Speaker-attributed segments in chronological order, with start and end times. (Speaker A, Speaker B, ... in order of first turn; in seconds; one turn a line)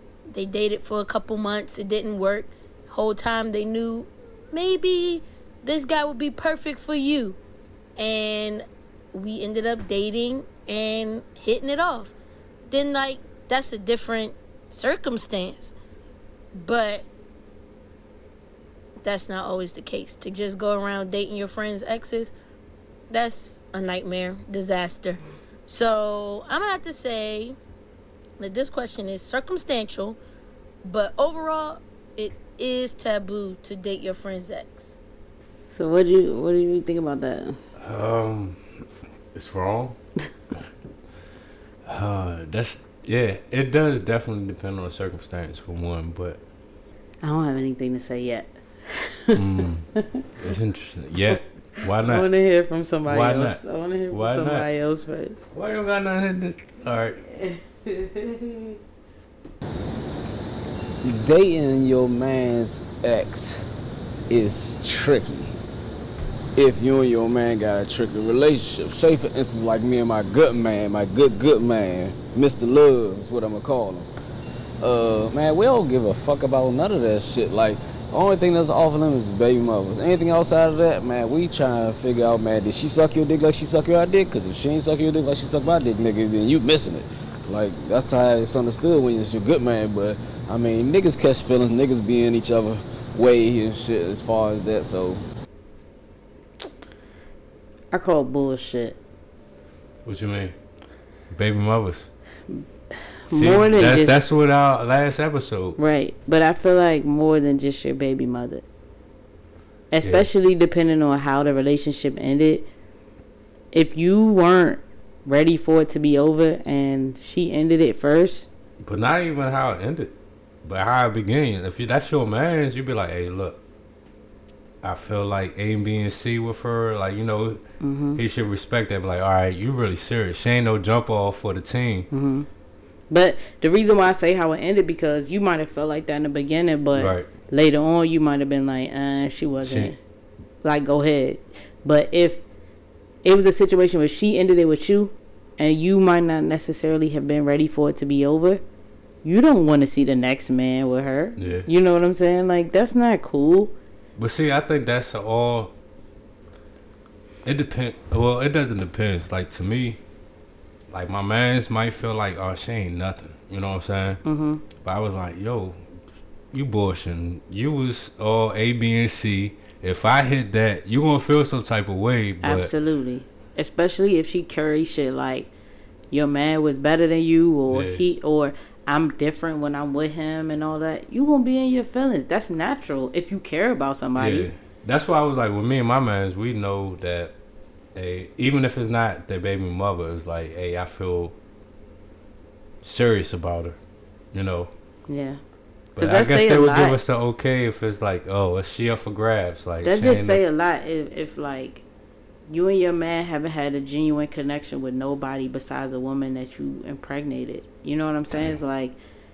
Speaker A: 0.3-7.4
Speaker A: 8.0-12.1
Speaker A: 12.7-15.7
Speaker A: 16.6-17.1
Speaker A: 19.0-22.3
Speaker A: 23.1-27.6
Speaker A: 28.4-30.2
Speaker A: 30.8-35.0
Speaker B: 35.7-37.6
Speaker C: 37.8-38.8
Speaker C: 39.3-40.0
Speaker C: 41.8-46.4
Speaker B: 47.2-49.4
Speaker C: 49.3-52.3
Speaker B: 51.3-55.4
Speaker C: 53.0-54.7
Speaker C: 55.5-57.2
Speaker B: 57.2-58.8
Speaker D: 61.0-63.6
Speaker D: 64.3-65.5
Speaker D: 66.5-74.1
Speaker D: 74.8-95.2
Speaker B: 97.9-99.0
Speaker C: 100.0-100.5
Speaker C: 101.3-102.1
Speaker B: 102.5-104.2
Speaker C: 103.3-105.8
Speaker B: 105.8-108.6
Speaker B: 109.9-112.7
Speaker B: 113.7-118.5
Speaker C: 118.8-120.1
Speaker C: 120.6-123.6
Speaker C: 124.8-127.6
Speaker B: 127.8-128.2
Speaker C: 128.2-132.1
Speaker B: 132.1-132.5
Speaker B: 133.1-140.0
Speaker C: 136.9-137.3
Speaker C: 139.6-139.9
Speaker B: 140.6-142.4
Speaker B: 143.2-148.6
Speaker B: 149.2-153.7
Speaker C: 151.4-151.7
Speaker C: 154.2-155.7
Speaker C: 157.4-160.0
Speaker C: 160.9-164.2
Speaker B: 164.2-164.6
Speaker C: 164.8-165.8
Speaker C: 166.5-172.7
Speaker B: 172.4-175.5
Speaker B: 176.1-184.5
Speaker C: 177.7-178.0
Speaker C: 184.2-187.3
Speaker C: 187.9-191.3
Speaker C: 192.8-193.8
Speaker C: 194.3-194.7
Speaker B: 195.1-195.4
Speaker B: 196.0-197.0
Speaker C: 196.0-200.4
Speaker B: 199.8-201.8
Speaker B: 202.5-208.9